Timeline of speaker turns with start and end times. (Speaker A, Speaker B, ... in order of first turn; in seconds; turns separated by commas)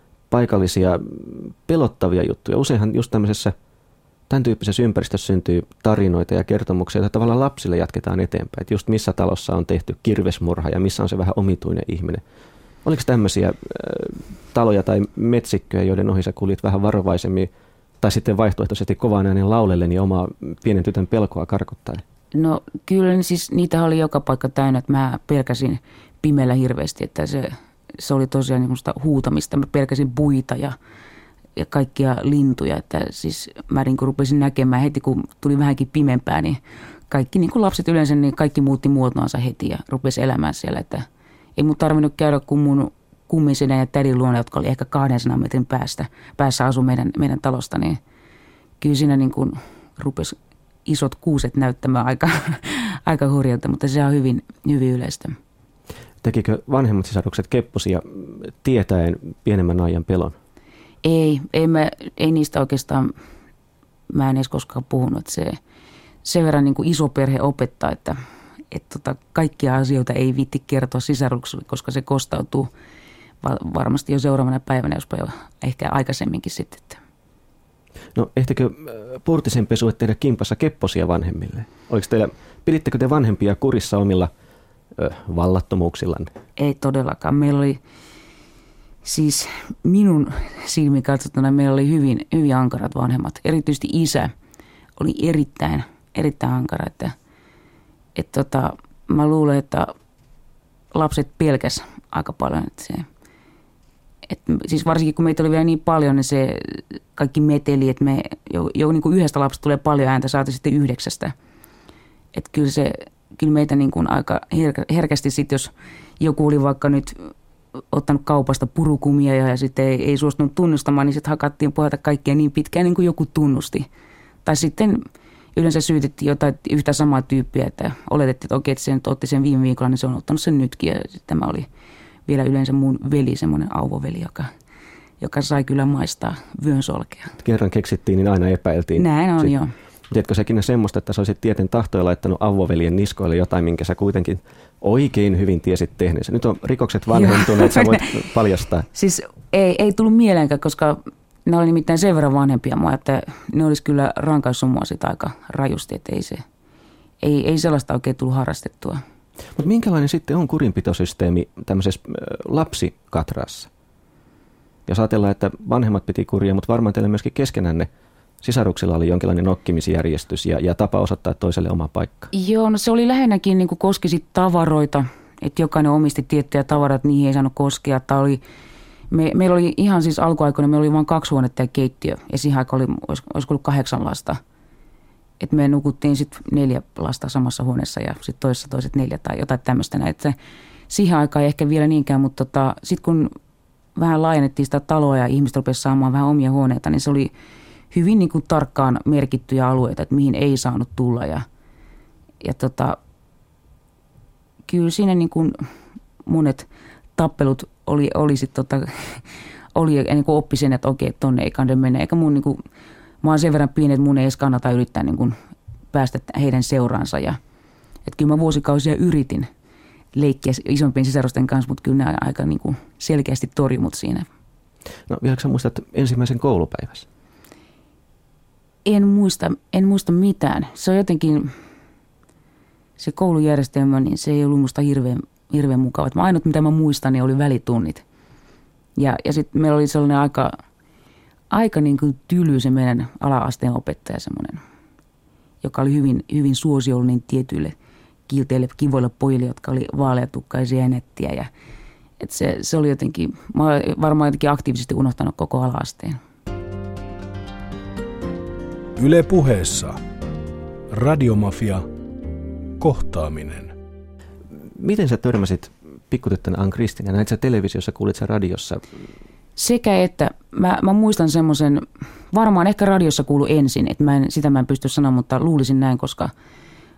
Speaker A: 0.3-3.5, Speaker A: 4.3-12.2, Speaker A: 12.8-17.5, Speaker A: 18.0-22.0, Speaker B: 22.3-30.8, Speaker B: 31.6-48.0, Speaker B: 48.8-55.4, Speaker A: 56.2-60.4, Speaker B: 61.0-63.1, Speaker B: 64.1-65.6, Speaker B: 66.2-68.2, Speaker B: 68.7-72.7, Speaker B: 73.4-77.0, Speaker A: 78.2-84.3, Speaker A: 85.0-86.3, Speaker B: 86.6-87.8, Speaker B: 89.0-94.3, Speaker B: 95.0-97.2, Speaker B: 98.2-99.9, Speaker B: 100.9-103.1, Speaker B: 104.3-111.3, Speaker B: 112.3-117.3, Speaker B: 117.9-123.9, Speaker B: 124.5-125.0, Speaker B: 125.5-131.7, Speaker B: 132.3-134.5, Speaker B: 135.2-137.3, Speaker A: 137.4-139.6, Speaker B: 139.0-139.7, Speaker A: 140.1-148.9, Speaker B: 147.1-148.2, Speaker B: 148.9-156.4, Speaker B: 157.2-159.0, Speaker A: 159.6-163.7, Speaker A: 164.9-167.9, Speaker A: 168.4-172.3, Speaker B: 172.3-178.4, Speaker B: 179.1-184.4, Speaker B: 185.4-190.4, Speaker B: 190.9-193.3, Speaker B: 193.9-197.3, Speaker B: 197.9-201.5, Speaker B: 202.4-203.0, Speaker B: 204.7-205.6, Speaker B: 206.2-212.6, Speaker B: 213.2-215.3, Speaker B: 215.9-217.4, Speaker B: 218.1-219.5, Speaker B: 220.1-224.3, Speaker A: 225.1-227.1, Speaker B: 228.8-231.5, Speaker B: 233.0-238.0, Speaker B: 239.0-240.6, Speaker B: 241.5-244.6, Speaker B: 245.6-247.8, Speaker B: 248.3-251.5, Speaker B: 252.2-256.2, Speaker C: 259.0-260.0, Speaker C: 260.9-261.9, Speaker C: 262.8-263.7, Speaker A: 264.8-268.8, Speaker B: 269.6-276.3